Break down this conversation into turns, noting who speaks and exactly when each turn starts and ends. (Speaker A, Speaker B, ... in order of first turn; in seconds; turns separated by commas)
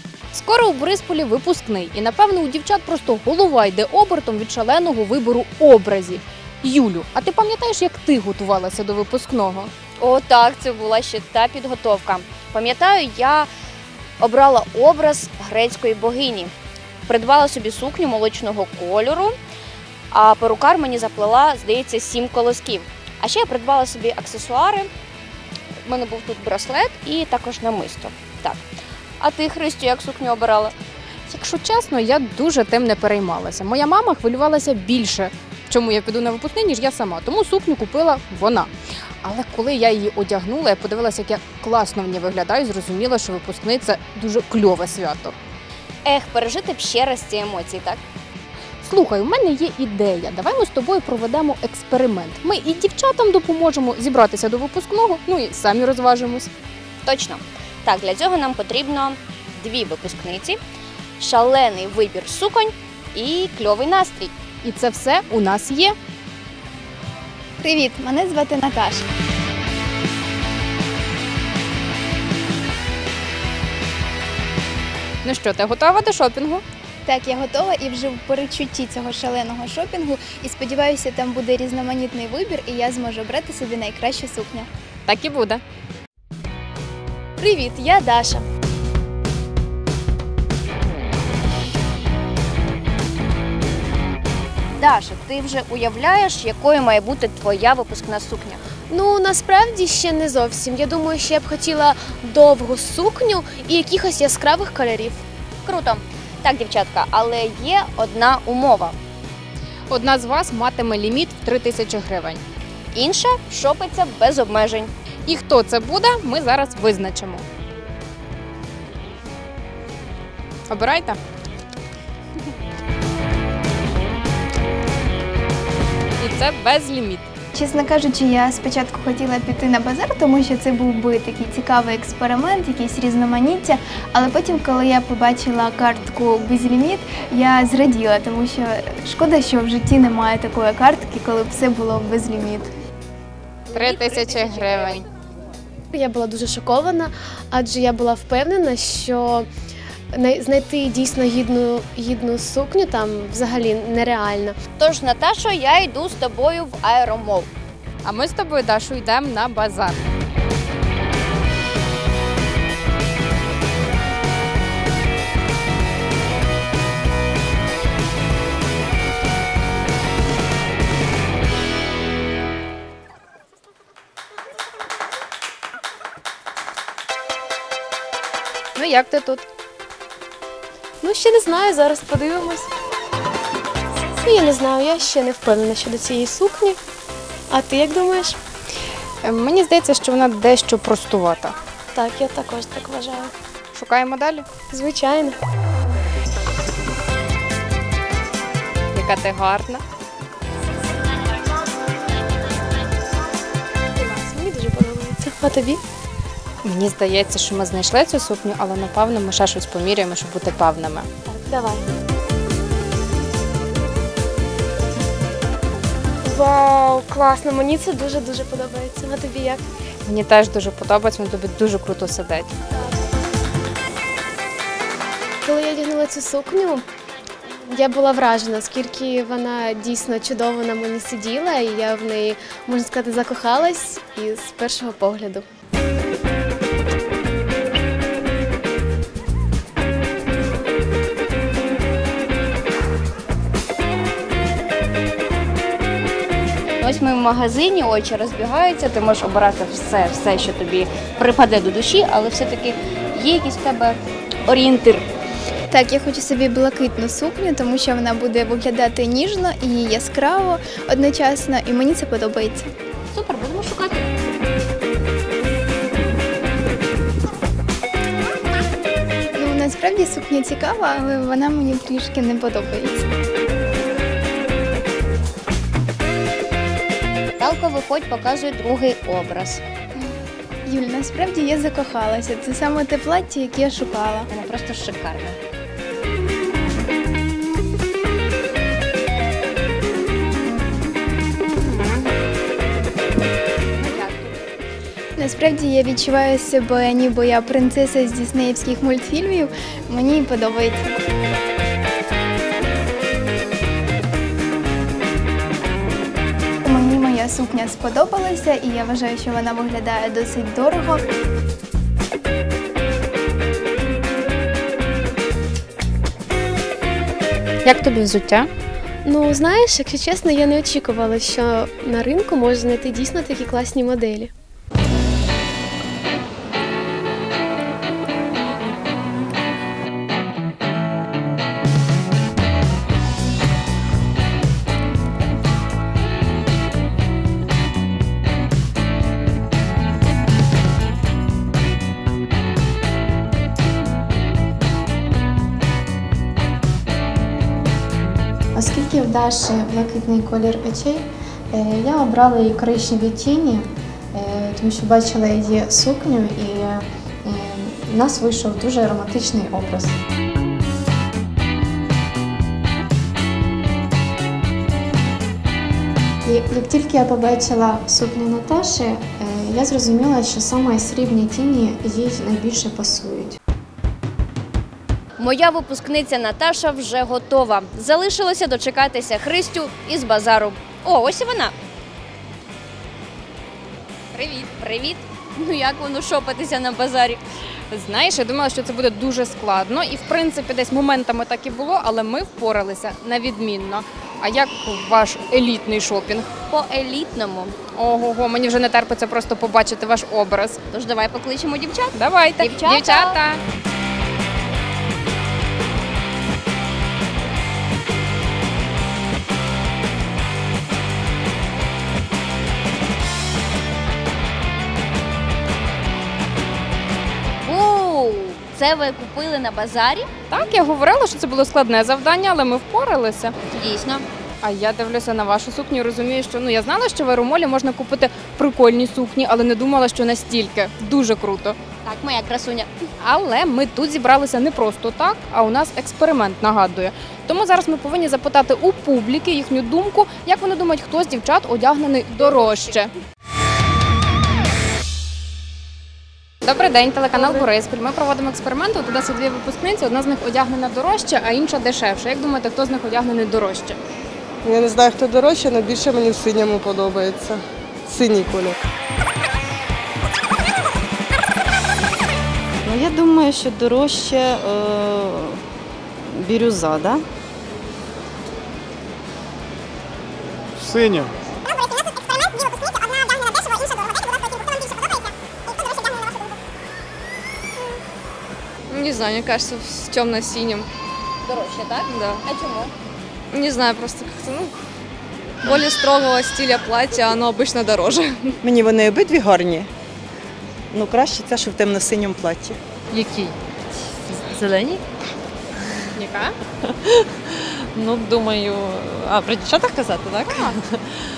Speaker A: 0.3-9.7, Speaker B: 10.0-13.5, Speaker B: 14.2-16.5, Speaker B: 17.1-19.3, Speaker B: 20.1-24.9, Speaker B: 25.9-28.6, Speaker B: 29.2-30.8, Speaker A: 31.3-38.7, Speaker A: 39.2-45.3, Speaker B: 46.0-48.0, Speaker A: 48.8-56.5, Speaker B: 57.0-60.5, Speaker B: 61.2-64.3, Speaker A: 64.6-65.9, Speaker C: 67.6-69.0, Speaker A: 75.2-76.6, Speaker C: 77.0-84.7, Speaker A: 85.1-85.6, Speaker D: 87.4-88.4, Speaker B: 94.8-98.6, Speaker D: 98.9-105.2, Speaker B: 105.7-108.9, Speaker A: 109.9-112.4, Speaker B: 112.9-114.9, Speaker A: 115.2-117.4, Speaker A: 120.7-121.2, Speaker A: 126.2-127.3, Speaker C: 127.5-142.7, Speaker A: 143.7-145.1, Speaker B: 143.8-145.0, Speaker D: 145.9-149.5, Speaker D: 150.1-154.6, Speaker B: 154.8-157.5, Speaker A: 158.0-160.0, Speaker A: 178.8-179.5, Speaker D: 181.0-182.7, Speaker D: 184.2-186.8, Speaker D: 187.5-188.4, Speaker A: 189.2-191.5, Speaker D: 191.9-193.3, Speaker A: 193.7-194.4, Speaker D: 194.7-195.4, Speaker A: 198.9-199.8, Speaker D: 204.0-205.8, Speaker A: 206.6-211.1, Speaker D: 211.2-211.8, Speaker D: 216.2-219.6, Speaker A: 220.1-222.5, Speaker D: 225.4-226.8, Speaker D: 227.7-235.4, Speaker B: 246.8-255.0, Speaker C: 255.7-262.7, Speaker A: 263.1-264.0, Speaker C: 269.3-273.0, Speaker B: 277.4-279.6, Speaker C: 280.6-284.3, Speaker B: 284.3-285.4, Speaker C: 295.2-300.9, Speaker C: 306.6-311.1, Speaker A: 317.6-318.5, Speaker D: 319.0-324.3, Speaker E: 348.5-360.0, Speaker E: 366.2-373.4, Speaker B: 375.2-381.5, Speaker A: 384.1-384.4, Speaker B: 384.6-387.2, Speaker A: 387.7-396.3, Speaker B: 396.5-397.6, Speaker A: 397.7-400.6, Speaker B: 400.7-403.2, Speaker A: 401.9-403.4, Speaker B: 417.5-420.1, Speaker A: 420.3-423.3, Speaker B: 423.6-424.0, Speaker A: 424.4-431.6, Speaker B: 431.9-432.7, Speaker A: 433.0-442.9, Speaker A: 446.4-453.8, Speaker F: 454.4-458.5, Speaker G: 462.6-465.4, Speaker G: 466.1-467.0, Speaker H: 478.7-480.7, Speaker B: 481.3-482.7, Speaker H: 481.9-482.2, Speaker H: 483.3-484.5, Speaker H: 485.4-488.4, Speaker I: 488.4-489.7, Speaker I: 490.7-492.6, Speaker J: 492.9-493.3, Speaker J: 494.1-494.8, Speaker A: 495.9-496.3, Speaker J: 497.7-500.8, Speaker A: 500.2-500.6